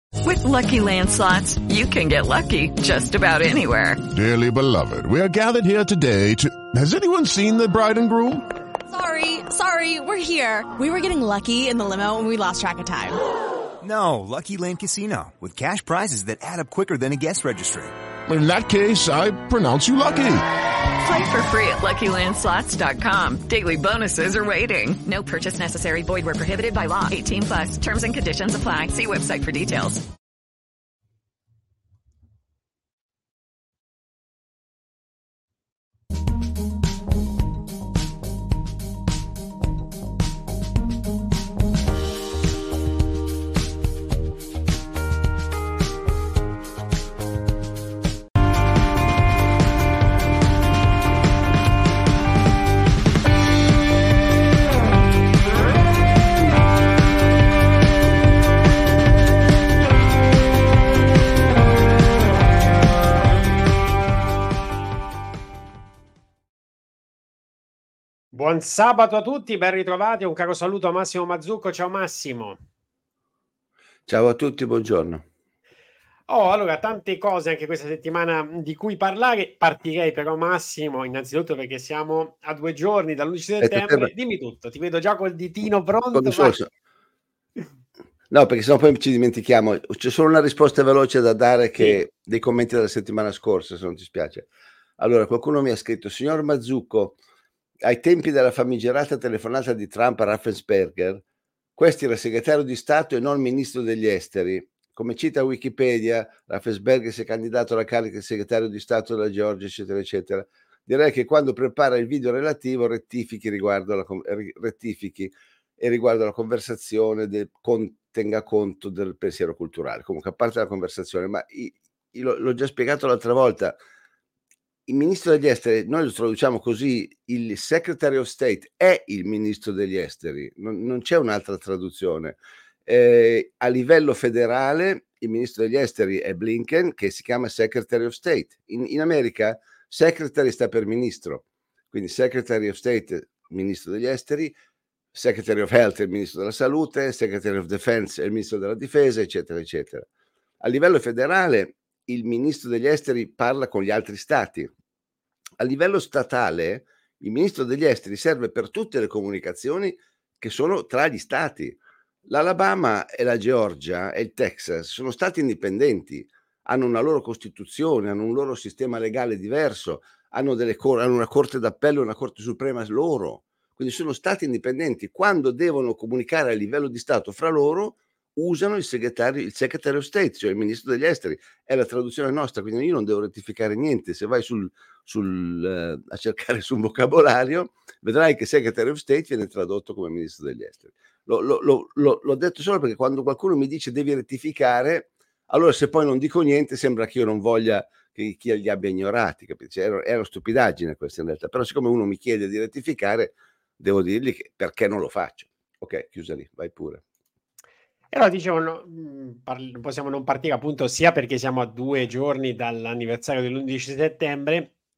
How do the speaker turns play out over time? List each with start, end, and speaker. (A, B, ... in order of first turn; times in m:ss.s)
0:00.2-0:04.0 A
0:04.1-0:08.4 B
0:08.9-0:13.2 C
0:13.8-0:17.9 D
0:18.3-0:20.4 B
0:21.0-0:30.0 A
1:08.3-1:12.6 E
1:14.1-1:15.2 F
1:16.3-1:26.6 E
1:23.6-1:24.1 F
1:26.1-1:26.7 F
1:28.3-1:37.2 F
1:37.8-1:41.2 F
1:41.8-2:03.8 F
2:04.9-2:24.6 F
2:25.1-2:30.1 F
2:30.6-2:34.7 F
2:35.6-3:27.0 F
3:28.1-3:34.7 E